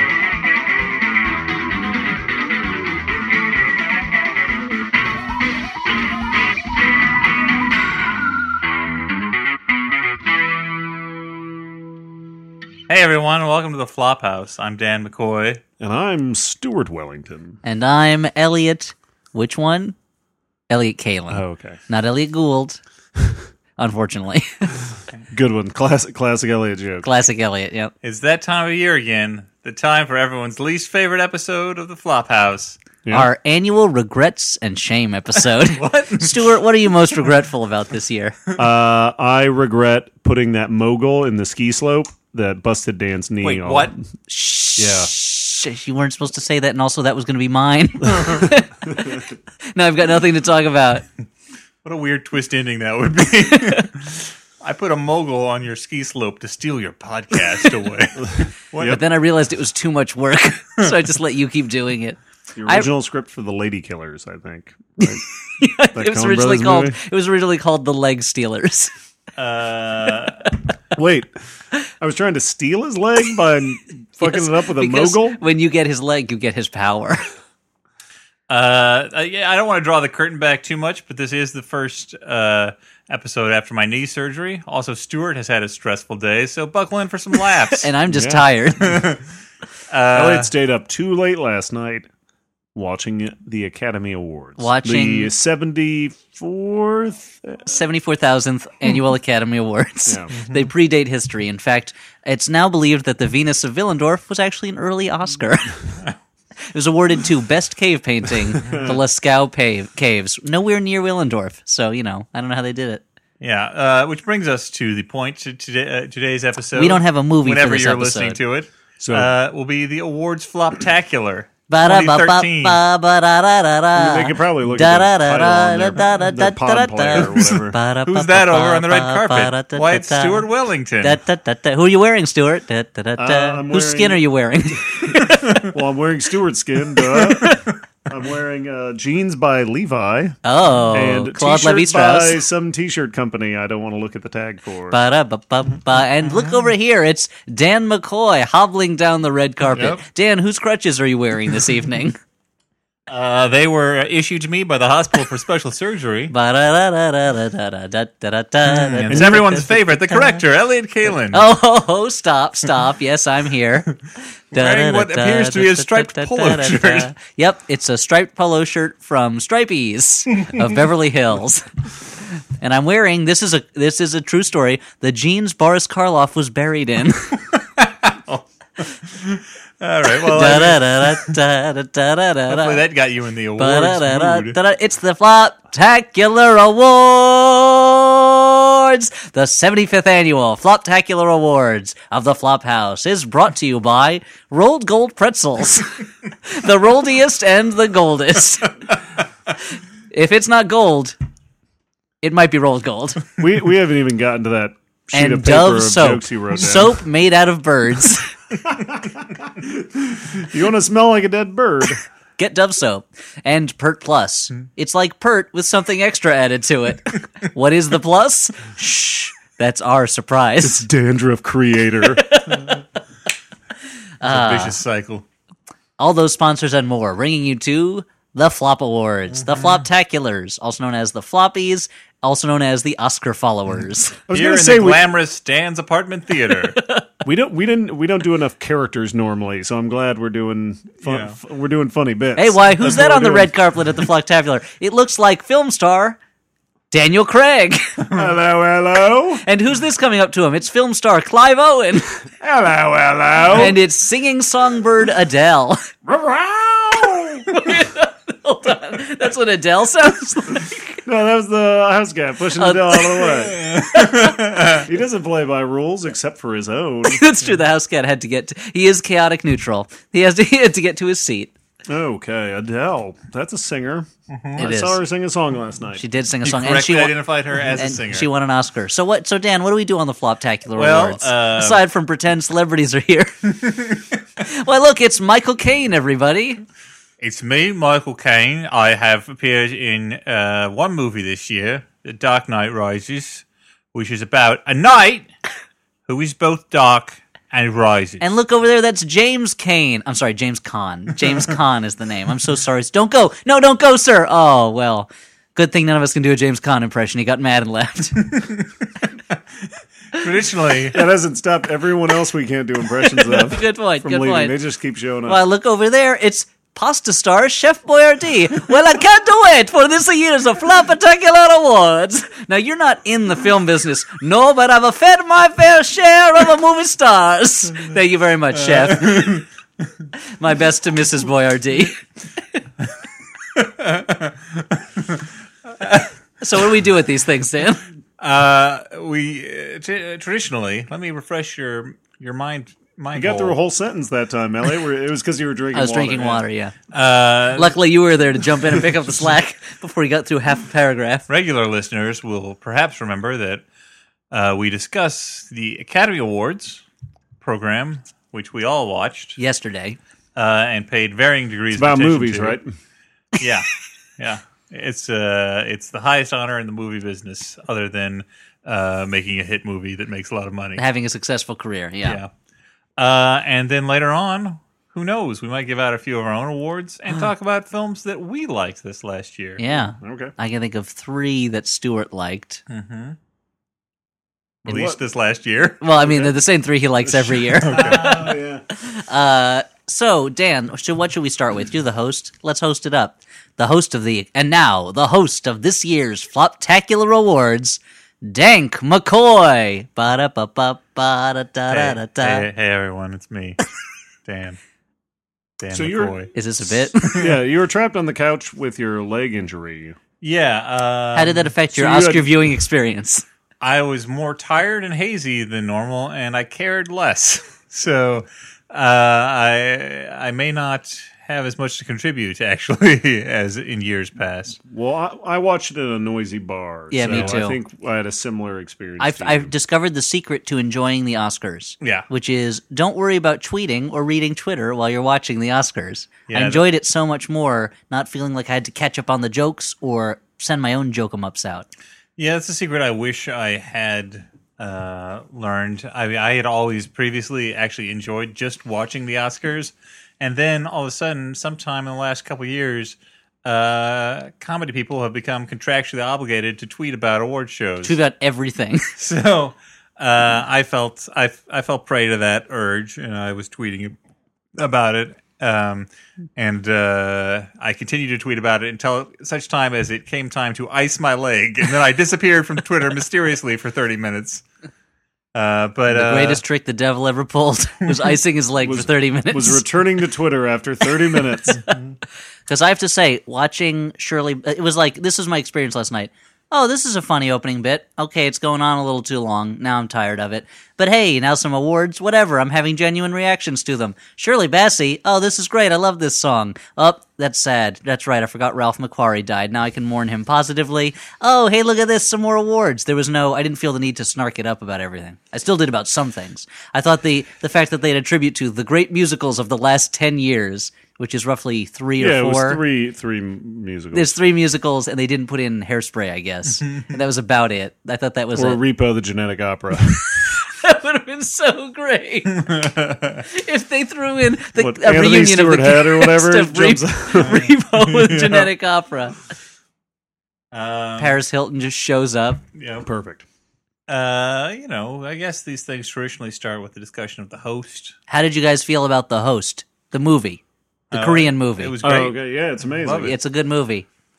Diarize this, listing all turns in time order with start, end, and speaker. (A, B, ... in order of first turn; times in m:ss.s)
0:12.9-0:15.6 A
0:15.8-0:17.6 B
0:17.6-0:20.0 C
0:20.7-0:22.8 C
0:21.3-0:21.8 B
0:23.8-0:24.8 C
0:25.3-0:27.1 B
0:27.0-0:27.9 C
0:28.0-0:32.8 A
0:33.0-0:33.3 B
0:33.1-0:38.4 C
0:35.4-0:36.5 A
0:38.6-0:44.0 B
0:43.4-0:43.9 A
0:44.3-0:51.0 C
0:44.8-0:45.1 B
0:51.8-0:59.0 A
0:53.5-0:53.8 C
0:58.3-0:59.0 B
0:58.8-1:02.9 C
1:02.6-1:05.2 B
1:05.0-1:08.9 C
1:05.9-1:07.0 B
1:09.4-1:10.5 A
1:11.0-1:11.3 B
1:12.0-1:15.4 B
1:14.2-1:17.2 C
1:18.5-1:27.9 A
1:27.8-1:29.0 C
1:28.1-1:28.5 B
1:28.8-1:29.2 A
1:29.9-1:30.5 A
1:30.1-1:32.1 B
1:32.7-1:37.4 B
1:34.6-1:35.3 C
1:37.6-1:45.8 C
1:40.1-1:40.3 B
1:40.4-1:40.6 A
1:46.7-1:53.0 C
1:48.6-1:48.9 B
1:48.6-1:48.9 A
1:53.4-2:02.8 A
1:56.8-1:58.4 C
1:59.0-1:59.3 B
2:01.7-2:10.4 C
2:03.9-2:07.8 B
2:07.2-2:11.2 A
2:11.0-2:15.6 C
2:13.2-2:14.2 B
2:14.9-2:20.4 B
2:17.1-2:17.7 C
2:20.4-2:22.4 C
2:20.9-2:25.0 B
2:24.9-2:32.2 C
2:26.2-2:26.7 A
2:29.7-2:30.0 A
2:33.1-2:36.3 A
2:36.3-2:40.4 C
2:38.6-2:41.4 A
2:41.3-2:44.0 C
2:44.5-2:47.1 A
2:44.5-2:51.7 C
2:52.6-2:57.4 C
2:57.8-3:01.3 A
3:00.1-3:02.8 C
3:02.5-3:04.6 A
3:03.6-3:18.8 C
3:20.1-3:21.2 C
3:22.2-3:23.3 C
3:23.4-3:27.0 B
3:25.1-3:28.3 C
3:28.6-3:32.0 B
3:32.4-3:40.8 C
3:40.6-3:42.2 B
3:42.1-3:42.8 C
3:44.2-3:44.8 C
3:44.2-3:45.2 A
3:46.0-3:54.2 C
3:49.3-3:49.8 A
3:54.3-3:55.1 B
3:54.3-3:56.8 A
3:56.7-3:57.1 C
3:57.2-4:03.5 B
4:01.0-4:01.4 A
4:02.4-4:06.2 C
4:06.9-4:08.0 C
4:08.1-4:09.4 B
4:09.4-4:12.2 C
4:12.4-4:13.8 B
4:13.5-4:15.8 C
4:16.0-4:17.5 B
4:17.4-4:21.0 C
4:21.0-4:23.8 B
4:22.6-4:24.6 C
4:23.3-4:24.9 A
4:24.7-4:27.2 B
4:27.0-4:31.5 C
4:31.8-4:36.0 B
4:34.3-4:34.7 A
4:34.6-4:35.0 C
4:36.0-4:37.2 C
4:36.4-4:38.3 A
4:37.8-4:43.4 C
4:40.8-4:41.8 A
4:43.7-4:44.0 A
4:44.4-4:46.6 C
4:47.2-4:55.3 A
4:56.1-4:58.2 A
4:58.2-5:08.4 C
5:10.1-5:11.0 A
5:10.9-5:15.4 B
5:13.0-5:14.6 C
5:15.2-5:29.4 C
5:28.6-5:29.5 A
5:30.4-5:32.0 C
5:33.5-5:36.1 A
5:36.4-5:37.8 C
5:38.2-5:43.6 A
5:43.1-5:46.4 B
5:45.7-5:46.7 C
5:46.9-5:47.7 A
5:47.5-5:51.2 C
5:51.3-5:53.6 A
5:54.3-5:56.8 A
5:57.4-5:59.4 A
5:59.4-6:00.0 C
6:00.4-6:02.6 A
6:01.7-6:02.7 B
6:03.4-6:10.8 A
6:10.8-6:12.2 C
6:12.0-6:12.3 A
6:13.0-6:19.6 A
6:19.6-6:22.6 C
6:20.0-6:20.3 B
6:22.7-6:23.2 A
6:24.6-6:25.0 B
6:24.6-6:25.8 A
6:25.8-6:42.5 C
6:26.0-6:26.3 B
6:27.0-6:28.6 B
6:27.6-6:28.4 A
6:41.7-6:43.6 A
6:44.2-6:44.6 A
6:45.6-6:46.3 A
6:45.7-6:46.3 B
6:46.3-6:47.3 C
6:46.9-6:47.4 A
6:47.2-6:50.0 B
6:50.2-6:51.5 A
6:51.1-6:53.2 C
6:51.7-6:52.4 B
6:53.6-7:04.6 A
7:04.6-7:09.5 B
7:06.9-7:07.6 C
7:07.0-7:07.4 A
7:09.0-7:21.7 C
7:11.8-7:12.1 A
7:16.3-7:16.6 A
7:22.2-7:38.0 A
7:37.8-7:38.9 C
7:39.0-7:43.9 A
7:44.5-7:54.4 A
7:55.3-7:56.4 A
7:55.9-7:59.6 C
7:58.6-8:01.6 B
8:01.5-8:01.8 C
8:02.4-8:32.6 C
8:32.0-8:34.1 B
8:33.9-8:38.6 C
8:38.3-8:40.3 B
8:40.0-8:42.7 C
8:42.3-8:43.2 A
8:43.2-8:49.2 C
8:44.6-8:47.5 B
8:47.2-8:48.5 A
8:50.5-8:51.2 A
8:51.0-8:52.4 C
8:52.6-8:52.8 A
8:52.8-8:53.2 B
8:53.9-8:58.0 A
8:58.1-9:01.7 C
9:00.9-9:02.2 A
9:01.8-9:03.2 B
9:02.7-9:03.2 A
9:03.0-9:03.9 C